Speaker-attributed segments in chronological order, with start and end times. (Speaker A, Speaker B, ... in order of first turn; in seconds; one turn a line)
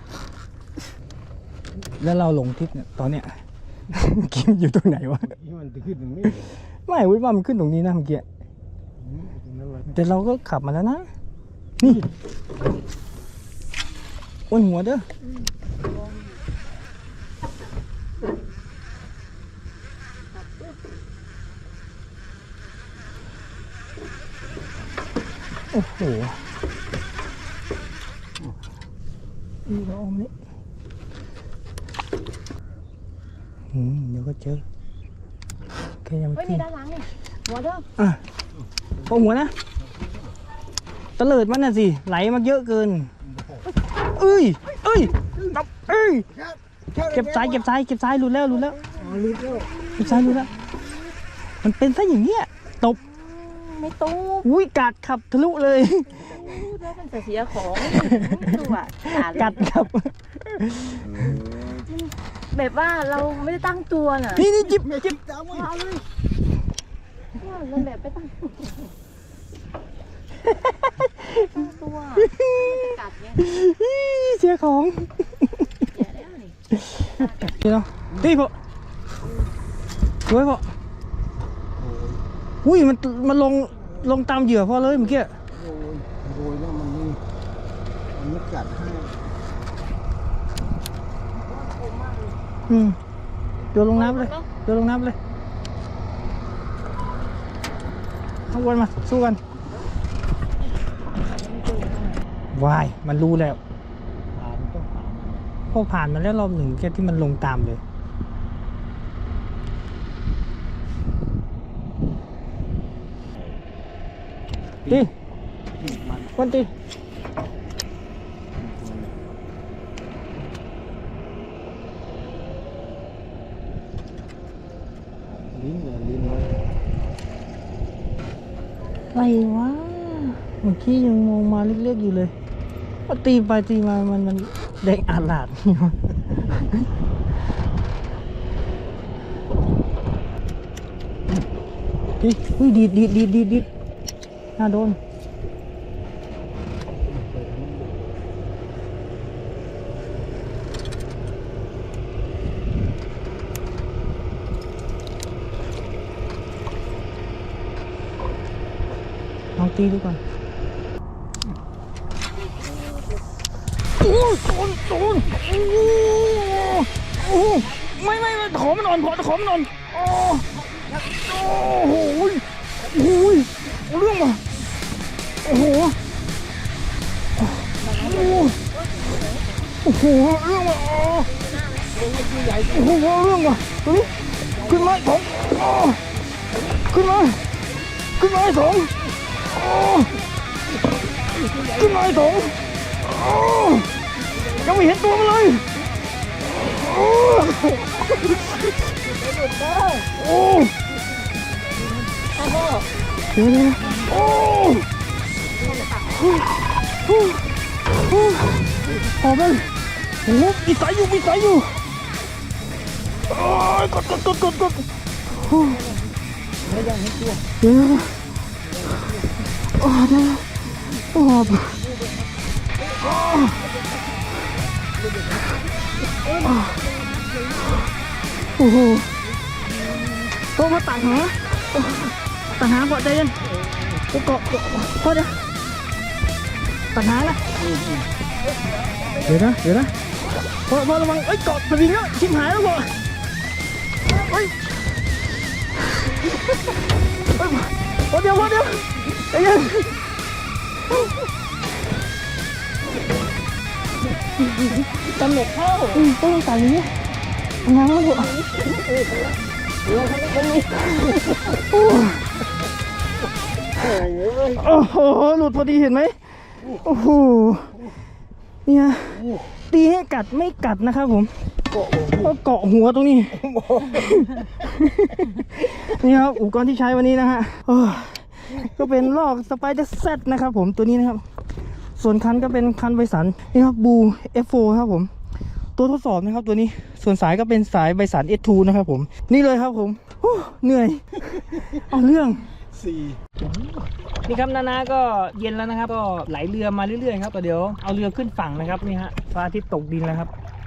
Speaker A: 1.9-5.4
Speaker B: 5.3-6.5
Speaker A: 6.9-8.2
Speaker B: 9.0-9.9
Speaker A: 9.9-11.1
Speaker A: 11.8-12.1
Speaker A: 14.5-15.1
Speaker C: 15.9-16.4
Speaker C: 20.4-20.7
Speaker A: 25.7-26.4
Speaker A: 29.7-30.3
Speaker A: 33.7-34.6
Speaker A: 36.0-36.7
Speaker C: 36.4-37.9
Speaker A: 39.0-39.5
Speaker A: 41.2-43.1
Speaker A: 44.0-46.3
Speaker B: 46.4-47.6
Speaker A: 47.0-48.8
Speaker B: 49.0-49.7
Speaker A: 50.0-50.5
Speaker A: 51.6-53.0
Speaker C: 53.3-54.5
Speaker A: 54.4-56.4
Speaker C: 56.2-59.6
Speaker A: 57.7-61.4
Speaker B: 61.1-61.9
Speaker C: 61.9-64.5
Speaker A: 64.3-65.2
Speaker B: 64.7-65.8
Speaker C: 65.5-66.0
Speaker C: 67.4-68.6
Speaker A: 70.8-71.5
Speaker C: 71.3-73.4
Speaker A: 72.2-75.8
Speaker C: 75.9-76.6
Speaker A: 76.8-78.5
Speaker A: 80.3-80.7
Speaker B: 81.8-82.2
Speaker A: 82.6-85.3
Speaker B: 85.5-87.2
Speaker B: 88.2-89.3
Speaker C: 91.5-92.3
Speaker A: 92.7-93.0
Speaker A: 93.7-95.2
Speaker C: 93.9-94.5
Speaker A: 98.5-99.4
Speaker C: 101.4-102.2
Speaker A: 102.5-103.6
Speaker B: 104.3-105.5
Speaker A: 105.7-107.8
Speaker B: 115.8-116.3
Speaker A: 116.3-116.7
Speaker B: 118.6-119.2
Speaker B: 125.5-126.6
Speaker A: 129.1-132.3
Speaker A: 133.1-136.9
Speaker A: 142.2-143.7
Speaker A: 144.6-145.0
Speaker B: 147.1-148.0
Speaker A: 159.6-160.2
Speaker C: 162.4-163.2
Speaker A: 164.0-170.5
Speaker A: 171.3-174.4
Speaker A: 175.4-176.0
Speaker C: 177.8-179.6
Speaker A: 178.0-178.6
Speaker A: 179.8-181.3
Speaker C: 181.3-181.9
Speaker B: 182.0-182.8
Speaker A: 182.6-186.0
Speaker A: 186.8-187.4
Speaker A: 188.2-189.0
Speaker A: 189.6-190.1
Speaker A: 191.6-192.6
Speaker A: 193.2-193.8
Speaker A: 194.6-195.7
Speaker C: 199.3-200.1
Speaker A: 200.1-200.7
Speaker C: 202.4-202.9
Speaker A: 203.3-204.8
Speaker C: 205.6-206.1
Speaker A: 207.1-207.4
Speaker A: 208.0-209.7
Speaker A: 210.2-211.8
Speaker A: 213.3-214.9
Speaker A: 215.4-215.8
Speaker B: 216.7-217.4
Speaker A: 217.6-218.2
Speaker A: 219.7-220.5
Speaker A: 221.0-221.8
Speaker A: 223.0-223.6
Speaker A: 226.5-226.8
Speaker A: 228.6-229.1
Speaker A: 230.5-233.5
Speaker A: 234.0-235.5
Speaker A: 236.9-237.4
Speaker B: 237.6-238.1
Speaker A: 239.2-239.9
Speaker A: 240.6-242.9
Speaker A: 244.2-244.5
Speaker A: 247.4-250.0
Speaker C: 254.8-256.0
Speaker A: 255.9-256.9
Speaker A: 257.6-258.4
Speaker C: 258.1-258.8
Speaker C: 259.9-261.4
Speaker A: 261.4-262.3
Speaker B: 264.0-264.5
Speaker A: 264.4-267.9
Speaker A: 268.7-271.3
Speaker A: 272.0-281.2
Speaker A: 282.0-285.1
Speaker A: 285.8-292.5
Speaker A: 294.2-300.3